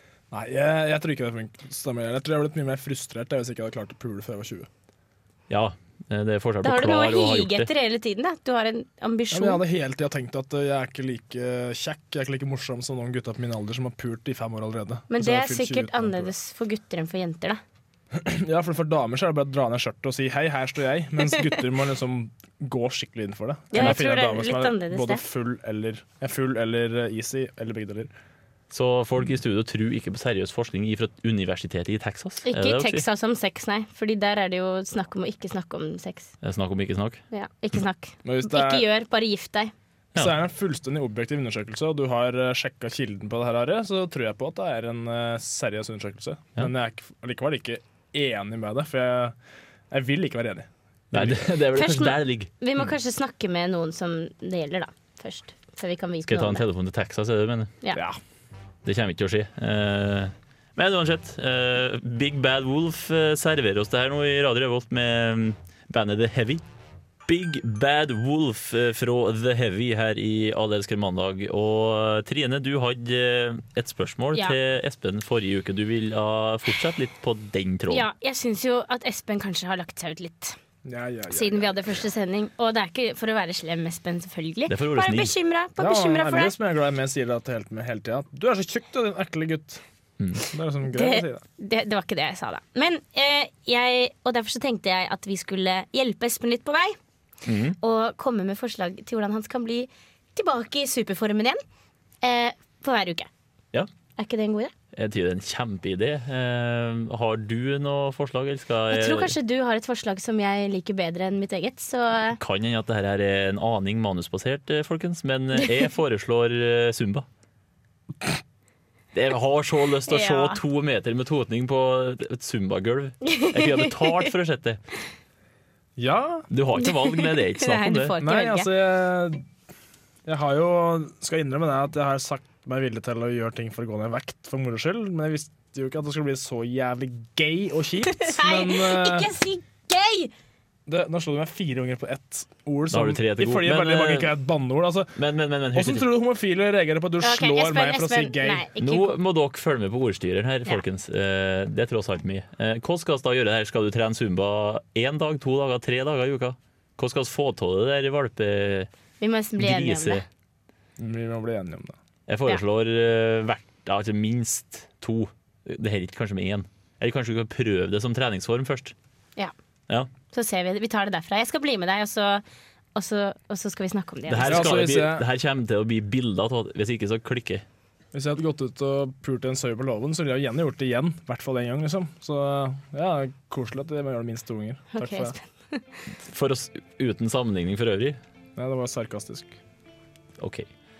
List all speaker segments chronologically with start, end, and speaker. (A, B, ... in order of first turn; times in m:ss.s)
0:00.3-0:04.7 A
0:05.5-0:07.7 B
0:06.6-0:09.6 C
0:09.3-0:16.3 A
0:15.1-0:17.6 C
0:18.1-0:28.1 A
0:23.7-0:25.2 C
0:28.7-0:33.0 B
0:32.4-0:36.3 C
0:36.4-0:37.2 B
0:37.3-0:39.7 C
0:38.2-0:38.8 A
0:40.1-0:49.4 A
0:49.9-0:51.4 A
0:51.1-0:52.5 B
0:51.7-0:56.6 C
0:56.2-0:57.7 B
0:58.8-1:06.6 B
1:07.3-1:18.0 B
1:17.9-1:20.6 C
1:20.8-1:21.8 A
1:21.3-1:26.5 C
1:24.7-1:25.3 B
1:25.8-1:29.8 A
1:30.2-1:30.4 B
1:30.5-1:31.4 A
1:30.9-1:37.0 C
1:37.4-1:37.8 B
1:37.8-1:41.6 C
1:42.2-1:43.3 C
1:44.2-1:44.7 C
1:44.9-1:49.3 B
1:48.9-1:52.4 C
1:52.4-1:57.2 B
1:59.1-2:04.8 B
2:00.1-2:00.6 C
2:03.2-2:04.3 C
2:06.0-2:06.5 A
2:06.5-2:08.2 B
2:06.8-2:08.7 C
2:08.2-2:09.4 A
2:10.2-2:19.3 A
2:18.1-2:20.3 C
2:20.9-2:25.2 A
2:22.9-2:24.3 B
2:25.2-2:26.1 B
2:25.7-2:28.6 A
2:27.2-2:29.1 C
2:28.8-2:38.9 B
2:39.2-2:40.2 C
2:39.6-2:40.2 B
2:41.0-2:42.0 A
2:42.3-2:48.9 B
2:50.3-2:52.4 C
2:52.9-2:54.7 C
2:54.3-2:57.6 B
2:54.4-2:55.3 A
2:58.1-3:05.4 A
3:04.9-3:06.0 C
3:06.1-3:08.2 B
3:08.6-3:09.6 A
3:10.4-3:10.6 B